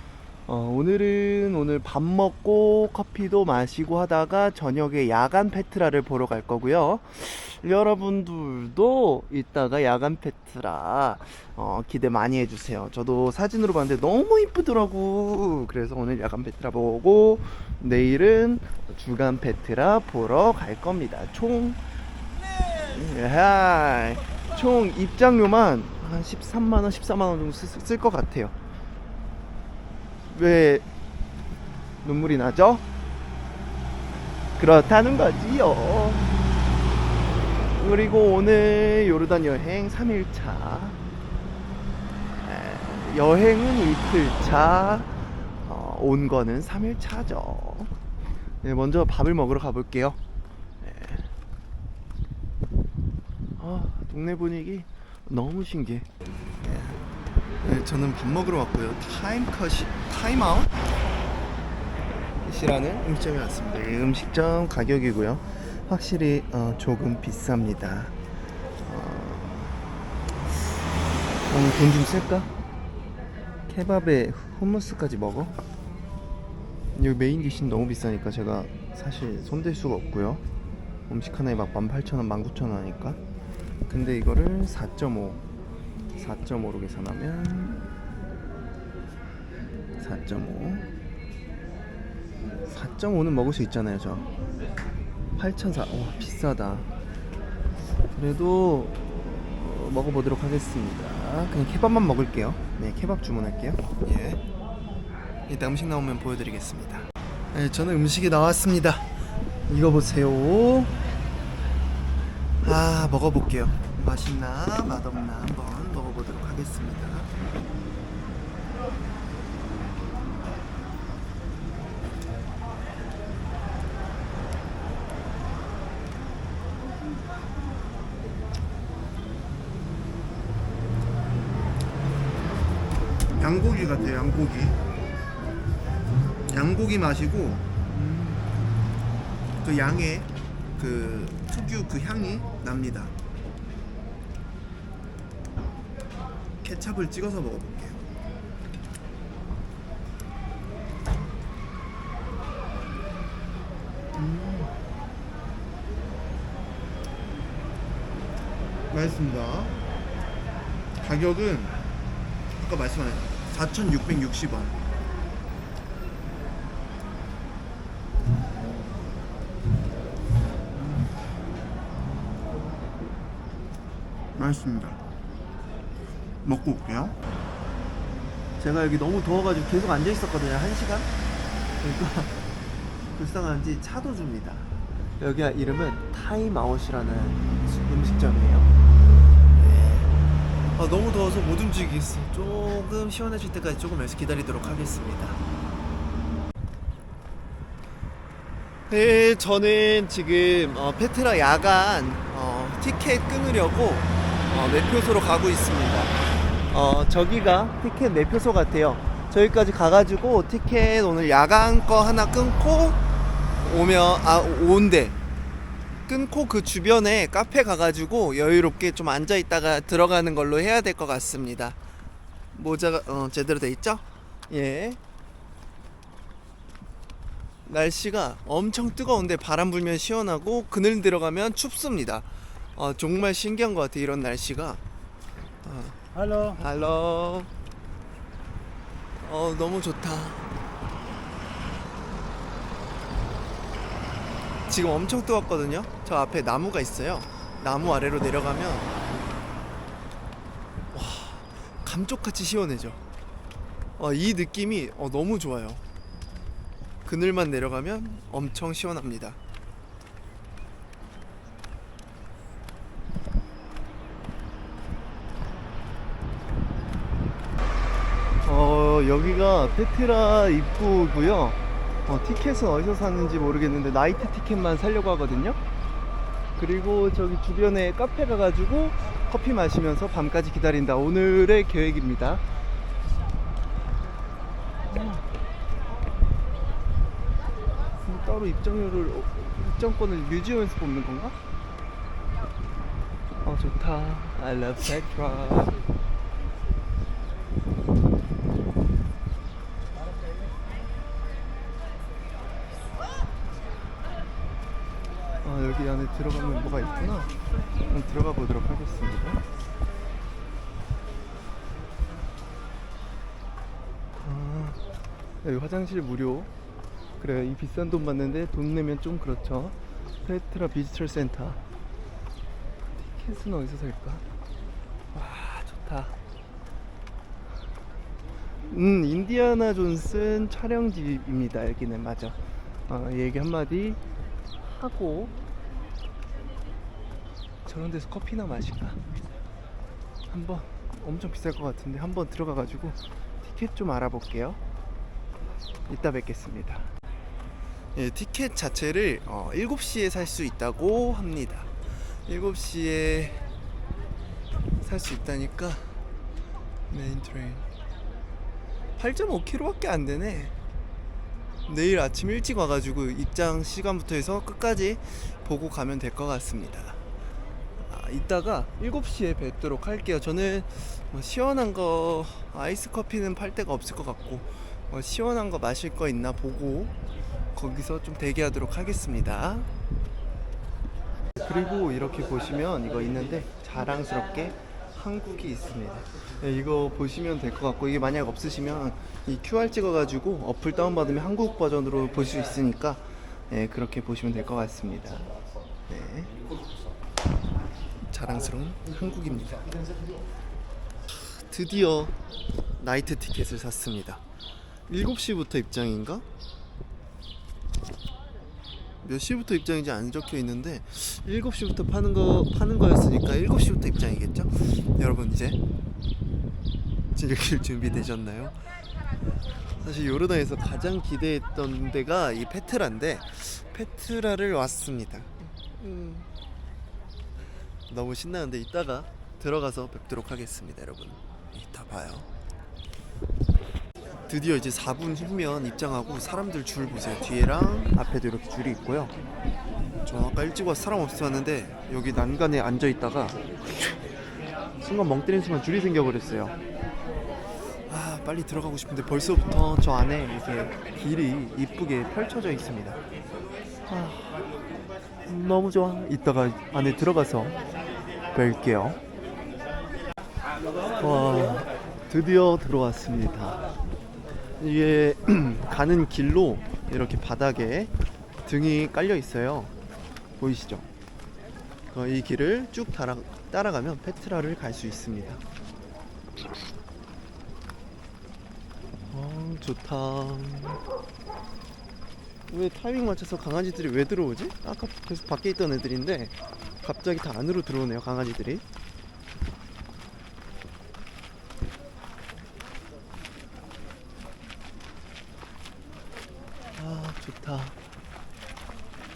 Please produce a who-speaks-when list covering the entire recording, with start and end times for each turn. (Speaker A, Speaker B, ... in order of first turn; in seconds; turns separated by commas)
Speaker A: 0.5-21.8, Speaker A: 22.7-28.5, Speaker A: 30.3-30.9, Speaker A: 32.0-32.8, Speaker A: 34.6-36.4, Speaker A: 37.7-41.0, Speaker A: 42.4-47.9, Speaker A: 48.6-50.2, Speaker A: 50.8-51.3, Speaker A: 53.6-56.1, Speaker A: 56.6-57.0, Speaker A: 57.6-60.8, Speaker A: 62.4-68.1, Speaker A: 68.8-69.7, Speaker A: 71.5-72.5, Speaker A: 73.7-75.6, Speaker A: 76.9-80.4, Speaker A: 81.1-83.2, Speaker A: 83.9-85.4, Speaker A: 86.1-87.9, Speaker A: 90.0-90.9, Speaker A: 92.7-94.2, Speaker A: 95.3-96.9, Speaker A: 98.1-104.4, Speaker A: 105.5-109.1, Speaker A: 109.7-111.0, Speaker A: 112.6-117.3, Speaker A: 133.3-134.8, Speaker A: 136.5-138.5, Speaker A: 139.6-143.1, Speaker A: 146.6-148.0, Speaker A: 154.1-154.8, Speaker A: 158.9-159.8, Speaker A: 161.0-161.7, Speaker A: 162.6-164.8, Speaker A: 170.7-171.1, Speaker A: 174.3-175.0, Speaker A: 176.4-177.2, Speaker A: 178.6-181.1, Speaker A: 181.8-182.4, Speaker A: 183.1-188.7, Speaker A: 189.6-190.2, Speaker A: 190.7-195.4, Speaker A: 198.9-206.2, Speaker A: 206.7-213.0, Speaker A: 213.6-215.2, Speaker A: 216.1-221.8, Speaker A: 222.5-225.0, Speaker A: 227.7-234.8, Speaker A: 235.6-237.5, Speaker A: 239.2-240.5, Speaker A: 244.7-248.9, Speaker A: 250.9-253.0, Speaker A: 254.0-255.8, Speaker A: 257.0-259.4, Speaker A: 268.4-275.6, Speaker A: 276.6-282.4, Speaker A: 284.9-285.2, Speaker A: 288.0-291.4, Speaker A: 293.4-295.8, Speaker A: 305.4-307.3, Speaker A: 307.8-309.4, Speaker A: 314.2-314.8, Speaker A: 315.4-316.5, Speaker A: 317.2-321.6, Speaker A: 322.9-324.2, Speaker A: 325.1-326.1, Speaker A: 328.7-334.0, Speaker A: 334.6-335.3, Speaker A: 337.6-339.0, Speaker A: 340.3-344.6, Speaker A: 345.9-346.9, Speaker A: 347.9-353.5, Speaker A: 354.8-355.9, Speaker A: 356.9-357.6, Speaker A: 359.0-360.5, Speaker A: 361.7-367.0, Speaker A: 367.8-376.9, Speaker A: 377.5-379.7, Speaker A: 381.4-395.3, Speaker A: 395.9-396.3, Speaker A: 398.0-399.7, Speaker A: 401.3-402.2, Speaker A: 402.8-404.2, Speaker A: 404.9-406.2, Speaker A: 409.0-415.6, Speaker A: 417.1-418.6, Speaker A: 419.8-426.3, Speaker A: 427.9-432.3, Speaker A: 434.3-439.1, Speaker A: 440.0-444.0, Speaker A: 444.8-446.6, Speaker A: 447.9-453.0, Speaker A: 453.9-454.4, Speaker A: 455.2-457.6, Speaker A: 458.3-459.0, Speaker A: 461.0-463.6, Speaker A: 464.6-467.9, Speaker A: 468.4-469.7, Speaker A: 470.4-470.9, Speaker A: 471.9-475.4, Speaker A: 479.1-480.8, Speaker A: 482.5-488.6, Speaker A: 496.8-497.8